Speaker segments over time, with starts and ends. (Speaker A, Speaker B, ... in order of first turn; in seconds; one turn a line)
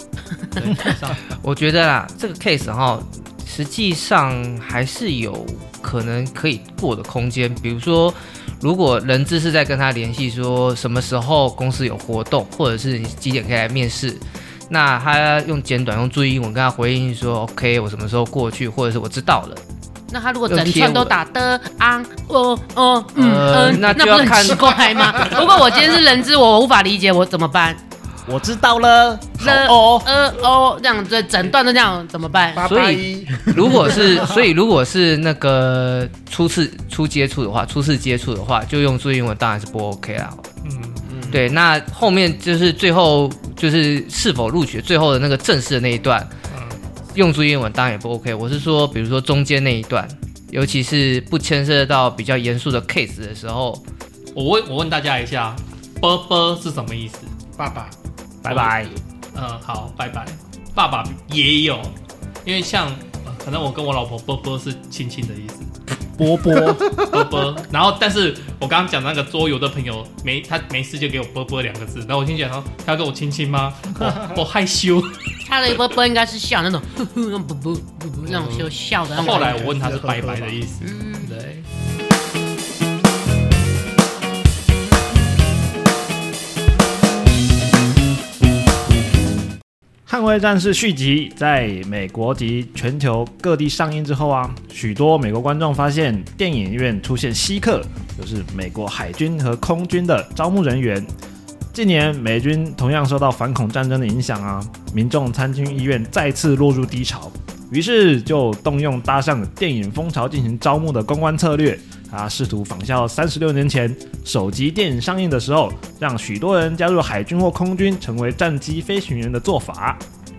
Speaker A: 0.6-1.3
Speaker B: 1.3-19.6
Speaker C: 20.1-27.8
Speaker B: 20.5-21.2
Speaker B: 23.1-25.3
Speaker D: 28.2-30.1
Speaker C: 29.4-32.7
Speaker E: 32.5-34.4
Speaker B: 32.6-40.4
Speaker A: 40.6-41.1
Speaker E: 41.0-41.5
Speaker B: 41.3-46.3
Speaker A: 46.5-46.8
Speaker B: 47.1-53.8
Speaker A: 54.3-57.3
Speaker E: 57.6-57.9
Speaker D: 58.4-58.9
Speaker A: 58.5-65.7
Speaker D: 66.2-67.0
Speaker E: 66.7-67.1
Speaker A: 67.1-75.3
Speaker C: 75.4-79.7
Speaker A: 78.2-81.7
Speaker E: 79.1-80.6
Speaker C: 80.8-81.3
Speaker D: 90.1-101.1
Speaker D: 101.7-120.0